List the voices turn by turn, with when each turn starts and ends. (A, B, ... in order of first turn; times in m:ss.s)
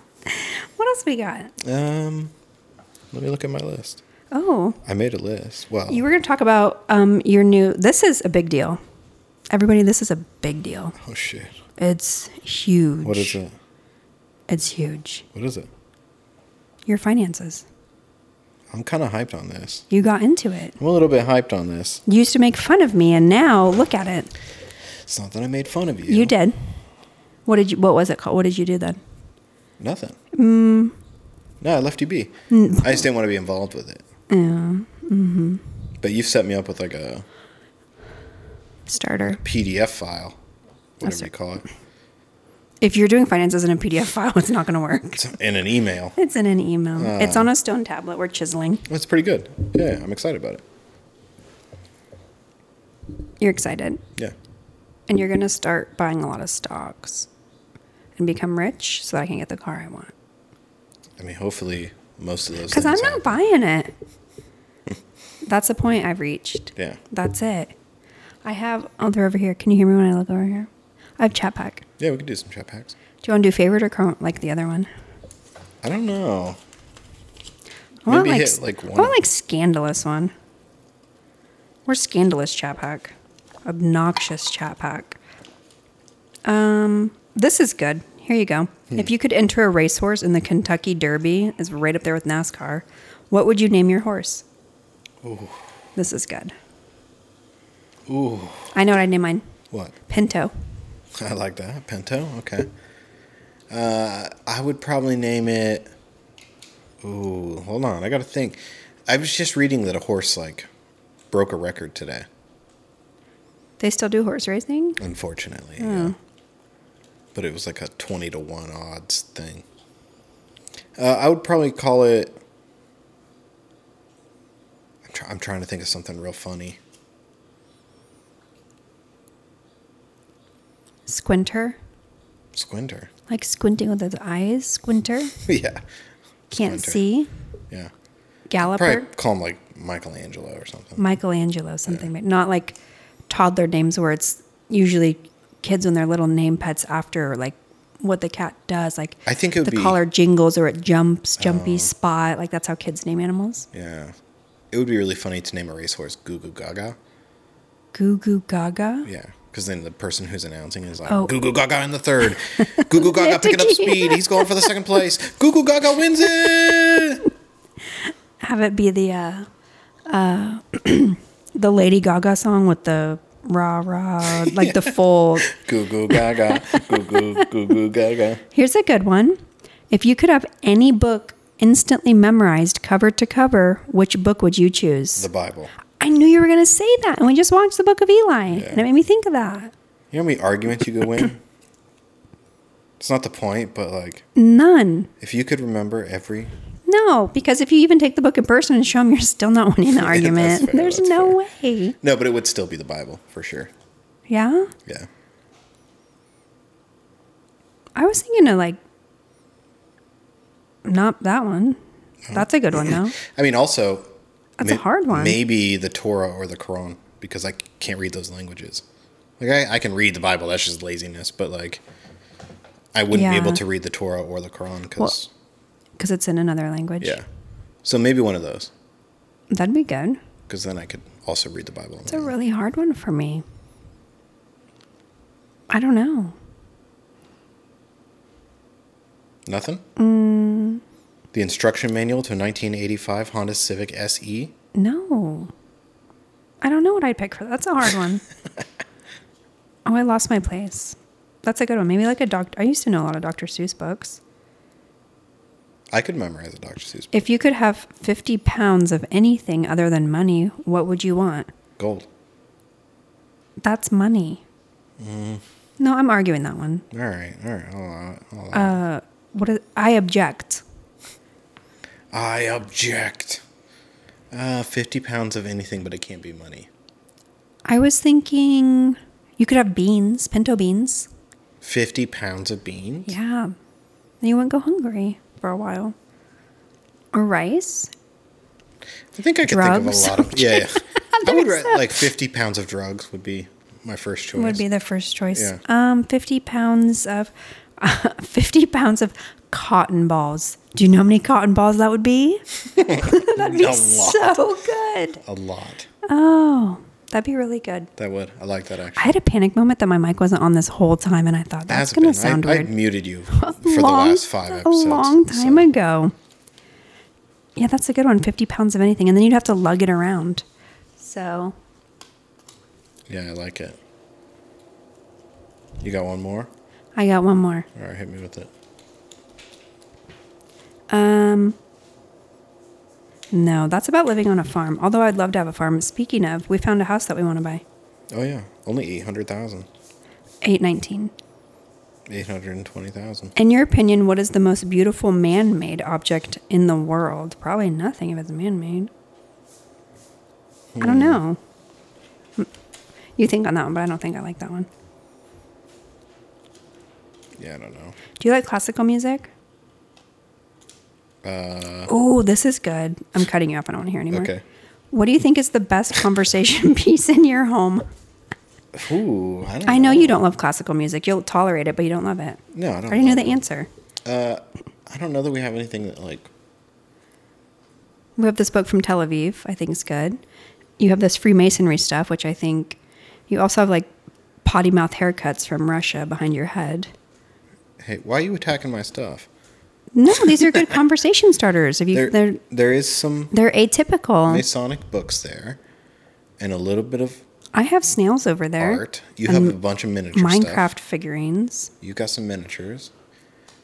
0:00.3-0:01.5 A
0:01.6-0:02.3 B
0:03.1-0:04.0 B
0:04.3-0:04.8 A
0:04.8-0:06.0 B
0:05.9-0:08.8 A
0:09.5-0:11.0 A
0:11.0-0:11.5 B
0:11.8-0:13.4 A
0:13.0-0:13.5 B
0:14.5-0:15.3 A
0:15.3-0:15.7 B
0:16.9-0:17.6 A
0:18.7-0:19.9 B
0:19.9-0:20.8 A
0:20.8-0:22.0 B
0:22.1-0:24.3 A
0:25.0-0:26.3 B
0:26.1-0:26.7 A
0:27.5-0:29.0 A
0:29.8-0:30.2 B
0:30.3-0:31.0 A
0:31.6-0:34.0 B
0:32.5-0:33.0 A
0:34.3-0:35.6 A
0:36.0-0:37.3 B
0:38.9-0:39.4 A
0:39.2-0:40.4 B
0:41.0-0:41.6 B
0:42.8-0:45.2 A
0:45.2-0:46.2 B
0:46.2-0:48.8 A
0:47.0-0:47.5 B
0:48.9-0:50.6 B
0:53.4-0:54.0 A
0:55.1-0:57.3 A
0:58.2-1:00.1 A
1:01.2-1:03.3 B
1:02.7-1:03.9 A
1:05.4-1:07.7 A
1:08.4-1:11.8 A
1:12.0-1:13.0 B
1:13.2-1:14.9 A
1:15.8-1:16.6 B
1:18.1-1:20.3 A
1:18.1-1:19.2 B
1:21.9-1:23.1 A
1:23.6-1:25.2 A
1:26.4-1:34.4 A
1:35.2-1:35.6 B
1:36.0-1:36.5 A
1:38.1-1:38.7 B
1:38.7-1:39.4 A
1:39.7-1:40.0 B
1:40.1-1:40.5 A
1:41.2-1:42.7 B
1:43.7-1:45.9 B
1:47.0-1:50.7 B
1:51.3-1:52.3 B
1:53.8-1:55.0 A
1:55.0-1:56.1 B
1:55.8-1:56.2 A
1:57.4-1:59.6 B
2:01.0-2:02.4 B
2:05.1-2:06.8 B
2:11.1-2:11.8 A
2:12.5-2:13.1 B
2:13.3-2:15.4 A
2:15.4-2:15.8 B
2:16.5-2:17.3 A
2:16.5-2:17.0 B
2:18.5-2:19.1 A
2:18.6-2:21.0 B
2:21.0-2:22.8 A
2:23.3-2:33.7 A
2:29.3-2:30.0 B
2:31.4-2:31.9 B
2:33.7-2:34.1 B
2:34.7-2:37.0 B
2:37.9-2:39.1 A
2:39.0-2:47.3 B
2:41.1-2:41.3 A
2:42.6-2:44.7 A
2:48.4-2:49.5 A
2:50.1-2:55.6 A
2:54.3-2:54.9 B
2:55.5-2:58.4 B
2:56.5-2:57.2 A
2:58.5-3:05.3 A
3:05.2-3:05.7 B
3:06.0-3:09.7 A
3:08.5-3:08.8 B
3:10.1-3:11.4 B
3:13.0-3:14.3 B
3:14.4-3:15.1 A
3:15.2-3:16.5 B
3:16.9-3:22.0 A
3:19.9-3:21.4 B
3:22.0-3:23.7 B
3:24.3-3:24.7 A
3:28.0-3:28.8 A
3:30.8-3:31.8 A
3:32.3-3:33.2 A
3:32.3-3:34.1 B
3:34.6-3:35.4 A
3:34.6-3:38.8 B
3:39.4-3:41.8 B
3:42.9-3:45.3 B
3:43.1-3:43.6 A
3:46.0-3:47.2 A
3:47.8-3:48.7 B
3:49.5-3:50.2 A
3:50.5-3:52.3 B
3:52.1-3:53.4 A
3:55.7-3:56.4 A
3:59.5-3:59.8 B
4:00.0-4:00.8 A
4:01.3-4:04.5 B
4:04.8-4:05.5 A
4:06.6-4:08.2 A
4:09.9-4:14.2 A
4:15.9-4:17.3 B
4:17.1-4:21.5 A
4:21.8-4:22.1 B
4:23.6-4:24.4 A
4:25.0-4:25.4 B
4:25.8-4:26.8 A
4:26.9-4:28.8 B
4:28.5-4:30.6 A
4:32.1-4:33.4 B
4:34.3-4:36.7 B
4:37.7-4:41.1 A
4:41.6-4:43.2 B
4:43.1-4:43.6 A
4:44.2-4:46.0 A
4:47.1-4:47.9 A
4:49.1-4:54.6 B
4:49.4-4:51.9 A
4:54.4-5:05.2 A
4:55.3-4:55.6 B
5:02.8-5:04.4 B
5:05.2-5:05.9 B
5:06.1-5:07.9 A
5:08.0-5:09.2 B
5:09.0-5:12.7 A
5:11.7-5:15.7 B
5:13.3-5:16.1 A
5:17.6-5:20.4 A
5:21.0-5:21.6 A
5:23.1-5:23.8 B
5:25.8-5:26.5 B
5:27.0-5:27.7 A
5:27.7-5:28.5 B
5:30.9-5:31.6 A
5:33.3-5:37.6 A
5:38.1-5:39.7 B
5:40.4-5:41.1 A
5:42.1-5:43.3 B
5:43.4-5:48.9 A
5:50.7-5:51.2 B
5:50.8-5:51.4 A
5:53.2-5:54.7 A
5:57.4-5:58.0 B
5:58.2-5:59.3 A
6:01.2-6:01.9 B
6:01.9-6:04.3 A
6:04.1-6:04.4 B
6:04.9-6:07.9 A
6:08.7-6:10.2 B
6:09.7-6:13.7 A
6:12.5-6:13.4 B
6:14.0-6:16.3 B
6:18.2-6:20.2 A
6:20.8-6:23.9 A
6:24.4-6:26.9 A
6:27.8-6:29.3 B
6:30.0-6:32.4 A
6:31.9-6:33.3 B
6:33.3-6:34.4 A
6:34.3-6:35.6 B
6:36.4-6:37.2 B
6:37.5-6:39.6 A
6:38.6-6:40.7 B
6:40.1-6:41.7 A
6:41.8-6:42.9 B